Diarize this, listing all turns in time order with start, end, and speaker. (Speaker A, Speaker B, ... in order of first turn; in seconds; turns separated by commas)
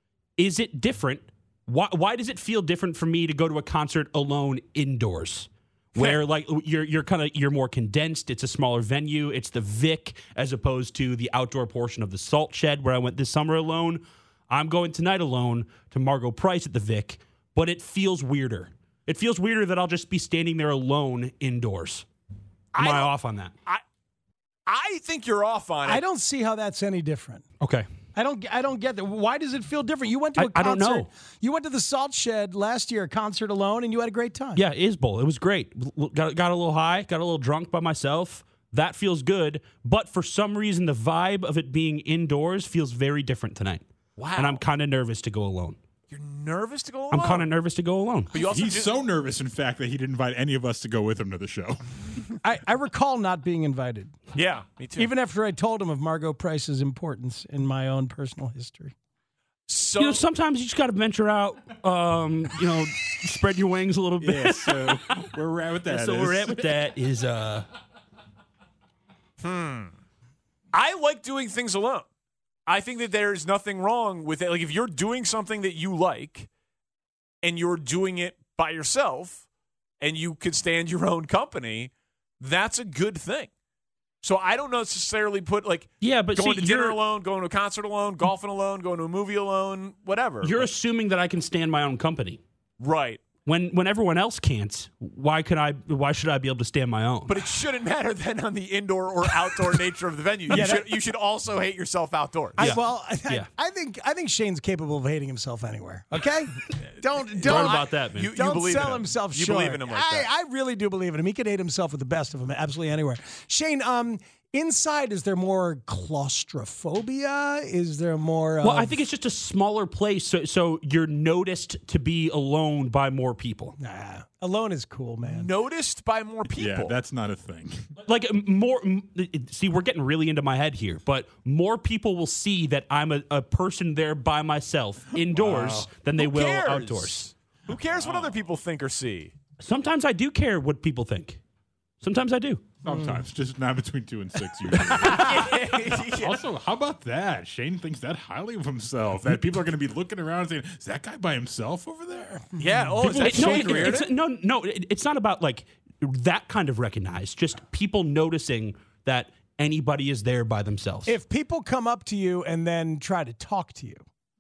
Speaker A: 0.4-22.0, Speaker B: 22.7-23.1, Speaker A: 22.8-23.5, Speaker B: 24.6-26.0, Speaker C: 25.8-27.4, Speaker A: 27.6-27.9, Speaker C: 28.1-34.6, Speaker A: 30.4-31.1, Speaker A: 34.5-43.8, Speaker B: 44.2-44.6, Speaker A: 44.4-45.8, Speaker B: 46.1-47.5, Speaker A: 47.1-48.3, Speaker B: 48.3-48.9, Speaker D: 48.4-51.8, Speaker C: 52.4-54.1, Speaker B: 54.3-55.1, Speaker C: 55.0-58.9, Speaker B: 59.7-60.2, Speaker A: 60.0-65.0, Speaker D: 64.2-66.7, Speaker A: 65.9-67.7, Speaker B: 69.4-69.9, Speaker B: 70.7-72.0, Speaker B: 72.7-76.5, Speaker B: 77.4-79.4, Speaker B: 80.0-83.5, Speaker B: 84.2-90.7, Speaker A: 86.0-87.0, Speaker A: 90.4-92.4, Speaker B: 92.8-93.3, Speaker A: 93.4-97.4, Speaker B: 97.3-102.7, Speaker C: 100.5-100.9, Speaker C: 102.6-119.0, Speaker A: 102.6-103.5, Speaker B: 107.4-110.3, Speaker A: 107.4-108.3, Speaker A: 118.6-123.7, Speaker C: 123.8-125.5, Speaker B: 125.2-126.9, Speaker D: 126.5-127.9, Speaker A: 128.0-137.3, Speaker D: 135.3-135.9, Speaker B: 136.2-139.3, Speaker A: 139.6-141.4, Speaker A: 142.0-142.7, Speaker D: 142.8-154.0, Speaker B: 145.0-146.4, Speaker B: 152.6-154.1, Speaker A: 153.2-161.1, Speaker C: 161.1-164.0